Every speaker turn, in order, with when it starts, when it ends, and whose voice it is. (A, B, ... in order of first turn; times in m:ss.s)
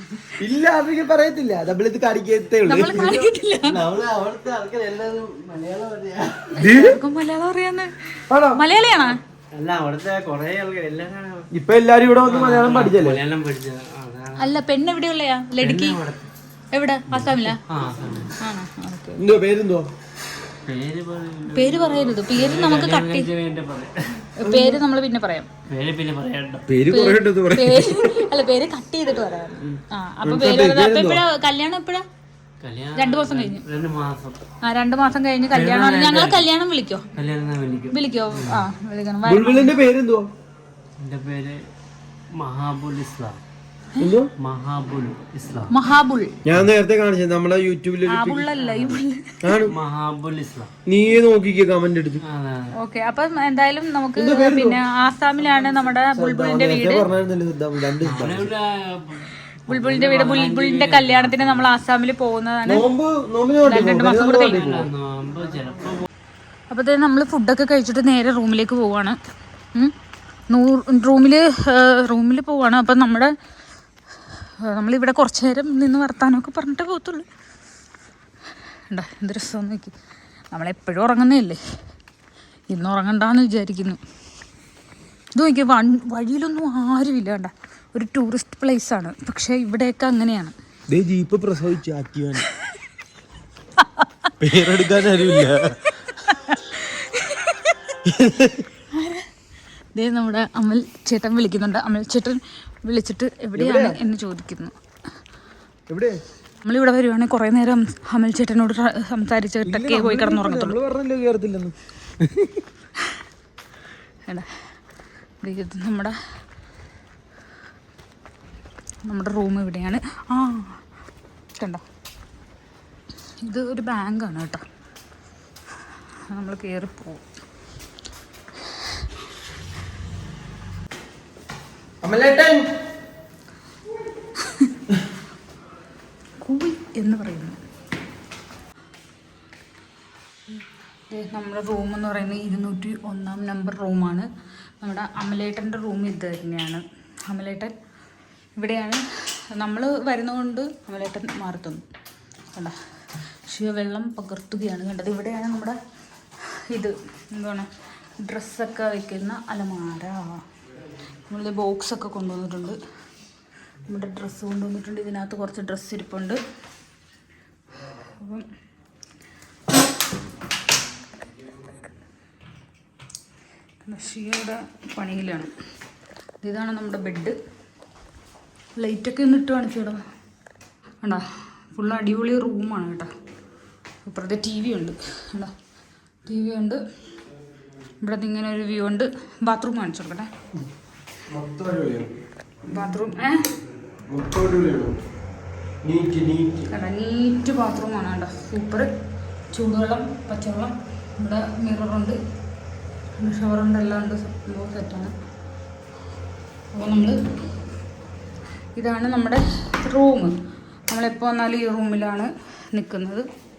0:00.4-0:03.3 A
0:02.7-0:03.8 B
0:03.6-0:06.6 C
0:06.6-0:07.0 A
0:06.6-0:09.2 B
0:08.3-0:08.6 A
0:09.5-0:11.5 C
0:11.5-0:13.2 A
0:12.2-0:14.6 C
0:14.4-0:16.0 B
0:15.6-0:16.3 C
0:16.7-0:17.6 B
0:17.1-0:18.4 C
0:18.4-0:19.3 B
0:19.2-0:19.9 A
0:20.6-0:24.3 C
0:21.5-0:23.3 B
0:24.4-0:25.5 B
0:24.4-0:24.8 A
0:25.7-0:26.7 C
0:26.7-0:28.3 A
0:26.9-0:32.0 B
0:30.2-0:31.2 A
0:32.6-0:34.4 C
0:33.0-0:33.6 B
0:34.6-0:37.1 B
0:35.5-0:36.5 C
0:37.1-0:38.6 C
0:37.9-0:39.7 B
0:39.2-0:40.3 A
0:41.0-0:41.6 C
0:42.4-0:43.4 C
0:44.0-0:44.3 A
0:44.4-0:45.7 C
0:45.7-0:46.4 B
0:46.4-0:48.5 A
0:48.1-0:49.4 B
0:48.6-0:49.0 C
0:49.4-0:49.8 A
0:49.7-0:50.7 C
0:50.9-0:52.2 A
0:52.2-0:52.7 C
0:52.8-0:57.0 B
0:54.2-0:54.8 A
0:56.1-0:58.5 A
0:58.0-1:01.7 C
0:59.7-1:02.9 B
1:02.7-1:04.9 A
1:03.7-1:04.6 B
1:04.5-1:06.1 C
1:06.7-1:09.2 B
1:10.5-1:13.3 B
1:14.6-1:17.3 B
1:18.9-1:19.9 B
1:20.5-1:21.6 B
1:22.7-1:24.0 B
1:25.4-1:30.6 B
1:30.9-1:32.5 A
1:33.8-1:34.1 B
1:34.4-1:35.7 A
1:36.1-1:37.8 B
1:38.0-1:38.7 A
1:38.9-1:39.3 B
1:40.0-1:44.7 B
1:43.6-1:44.0 A
1:45.9-1:46.2 A
1:46.6-1:50.8 B
1:49.6-1:52.6 A
1:54.3-1:54.7 B
1:55.4-1:56.2 B
1:59.0-2:00.8 B
2:01.6-2:01.8 B
2:03.4-2:04.6 B
2:06.3-2:07.2 B
2:12.0-2:12.6 A
2:14.4-2:14.7 B
2:16.4-2:17.6 B
2:20.5-2:24.3 B
2:24.8-2:27.8 B
2:28.6-2:29.0 B
2:29.6-2:31.9 B
2:33.5-2:35.8 B
2:36.7-2:40.4 B
2:41.3-2:42.8 B
2:43.9-2:46.4 B
2:48.2-2:48.5 B
2:53.9-2:55.5 B
2:56.4-2:57.4 B
2:58.8-3:00.0 B
3:01.0-3:03.1 B
3:04.0-3:05.5 B
3:06.3-3:06.8 B
3:08.0-3:10.3 B
3:11.3-3:12.1 A
3:12.7-3:13.5 B
3:14.1-3:15.0 A
3:15.8-3:16.7 A
3:16.7-3:18.9 B
3:19.5-3:22.2 B
3:23.2-3:25.1 B
3:26.7-3:27.2 B
3:28.8-3:30.3 B
3:30.9-3:33.3 B